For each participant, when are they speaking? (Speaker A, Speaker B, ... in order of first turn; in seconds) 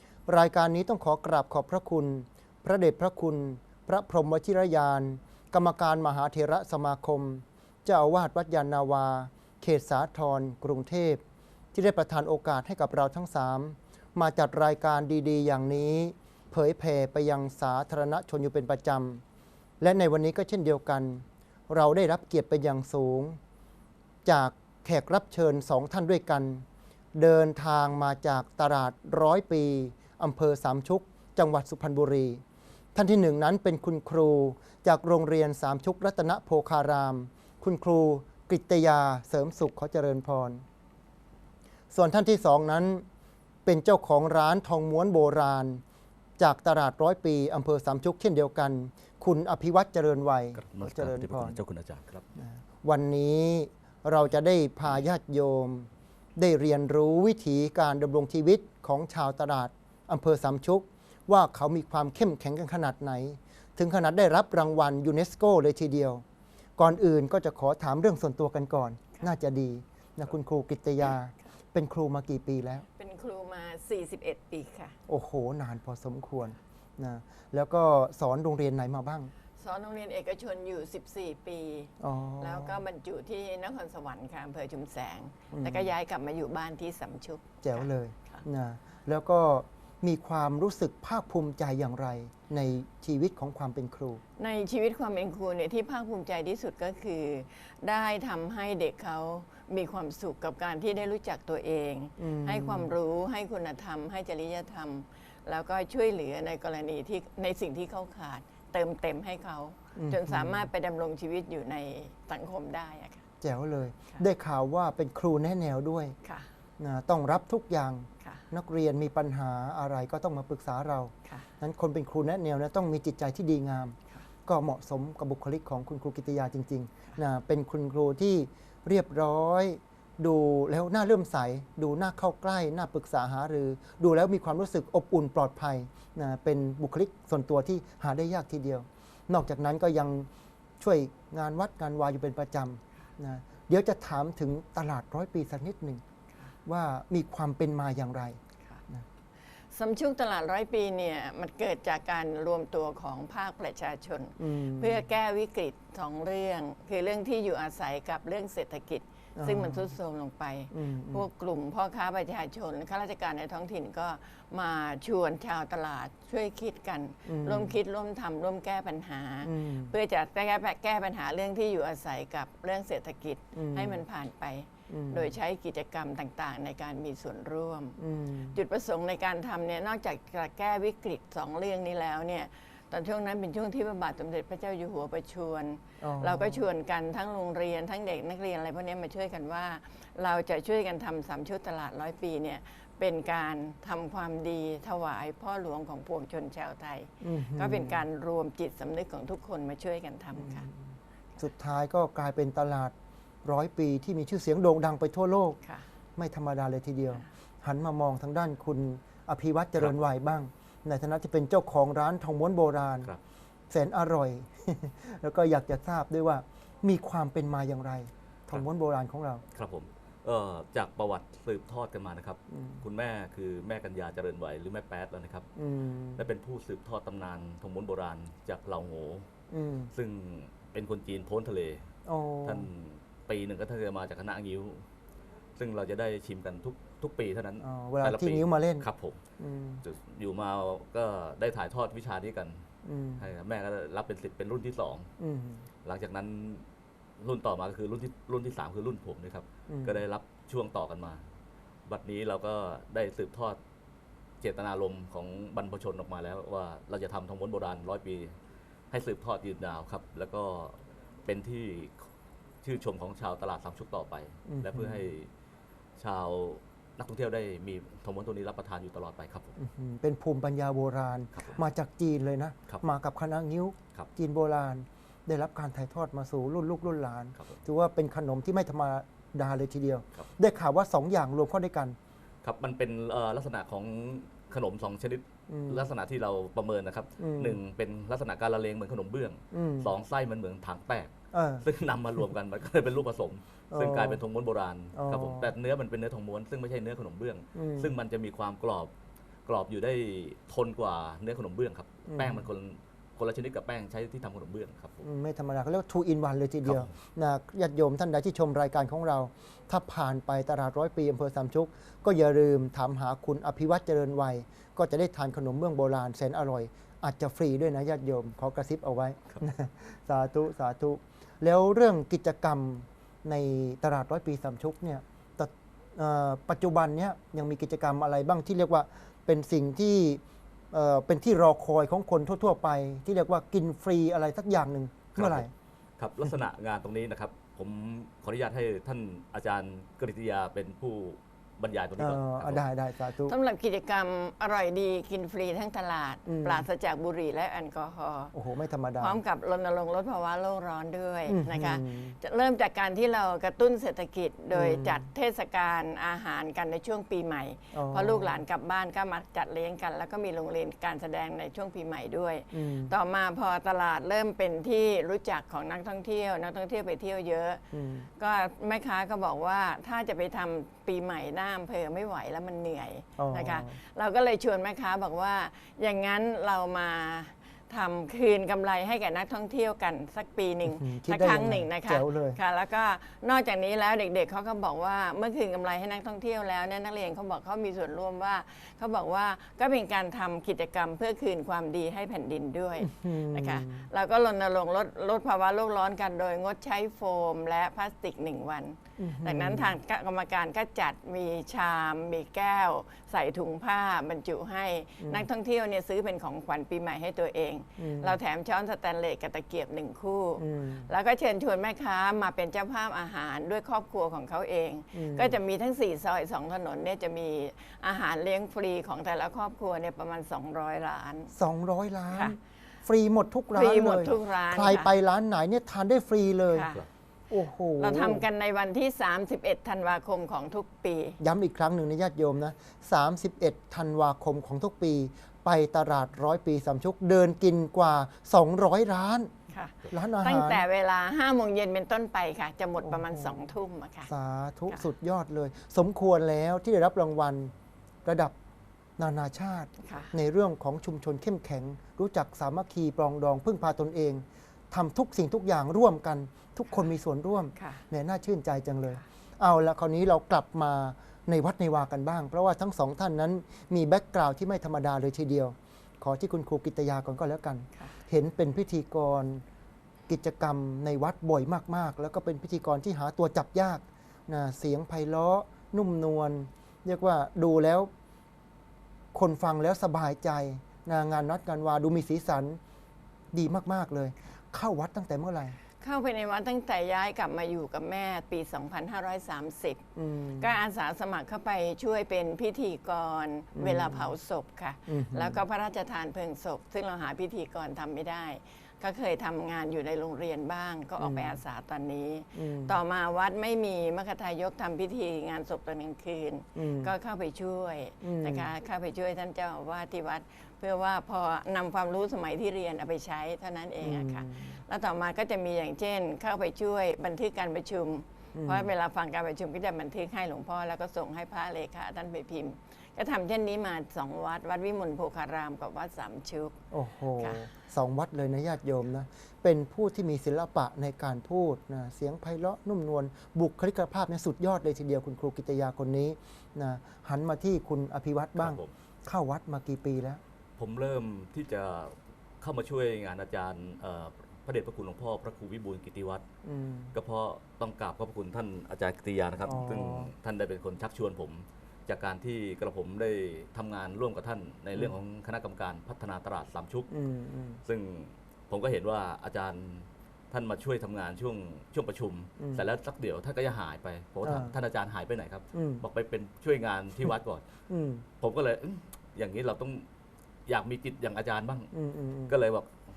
Speaker A: 0.3-11.2, 11.7-19.2, 19.8-23.4, 24.2-32.4, 33.0-40.6, 41.9-43.1, 43.6-45.8, 46.4-51.6, 52.4-66.2, 66.8-72.8, 75.1-79.3, 82.0-82.8, 85.5-85.9, 87.6-94.2, 102.2-102.9, 110.0-110.7, 113.4-116.2, 116.8-140.3, 140.8-146.0, 146.7-149.1, 154.4-155.1, 159.4-160.0, 160.7-161.3, 167.3-167.8, 169.4-169.9, 173.5-174.0, 174.9-175.3, 178.0-178.6, 186.0-186.6, 197.2-198.0, 200.3-205.6, 206.2-213.1, 213.7-219.4, 222.5-222.8, 225.6-226.3, 229.5-229.9, 232.1-232.7, 237.6-238.9, 239.4-239.8, 242.8-243.3, 245.2-245.7, 249.7-250.0, 264.5-265.1, 269.6-282.0, 285.5-285.9, 287.2-287.6, 289.5-289.9, 291.3-291.6, 293.7-294.2, 294.9-295.5, 297.6-298.0, 302.1-302.5, 305.0-330.2, 330.7-335.5, 342.0-343.3, 346.3-346.7, 348.3-349.2, 351.3-352.2, 354.5-355.0, 357.7-358.4, 362.5-362.9, 367.7-368.1, 373.2-373.8, 380.7-382.4, 392.8-393.9, 399.0-399.8, 405.0-405.3, 407.8-408.2, 410.4-410.9, 414.9-415.4, 421.3-426.7, 427.3-428.2, 431.2-439.3, 439.9-440.6, 442.8-443.5, 444.1-447.5, 448.1-448.4, 449.0-469.4, 470.1-477.9, 479.1-482.6, 483.3-485.6, 490.0-490.5, 493.6-494.1, 494.9-495.4, 501.0-501.4, 502.3-502.8, 506.6-506.9, 508.0-508.5, 513.8-514.6, 518.4-518.7, 526.7-540.2, 546.4-547.0, 549.5-550.1, 556.9-557.6, 564.2-564.5, 565.5-565.9, 567.7-568.1, 571.7-572.4
Speaker B: 50.6-52.3, 219.5-225.5, 226.2-229.3, 229.9-231.9, 232.4-234.9, 235.6-239.2, 239.8-242.7, 243.2-245.1, 245.8-246.7, 247.2-251.2, 251.9-253.6, 254.4-258.4, 258.9-262.1, 262.6-265.3, 266.0-269.6, 271.4-271.6, 282.4-298.9, 299.5-305.0, 306.6-306.9, 335.1-335.5, 336.0-342.6, 538.4-538.7, 540.6-546.2, 546.9-556.9, 557.6-567.5, 568.2-569.9, 570.5-571.7, 572.3-572.8
Speaker C: 73.0-75.0, 79.6-88.4, 94.4-113.2, 116.2-116.5, 149.7-178.0, 178.5-200.7, 205.6-205.9, 343.2-348.3, 349.0-367.6, 368.2-421.3, 422.1-422.4, 423.5-424.9, 426.5-426.9, 427.8-431.2, 439.5-444.1, 449.8-450.1, 457.6-457.8, 485.8-489.9, 490.4-526.6, 527.2-527.5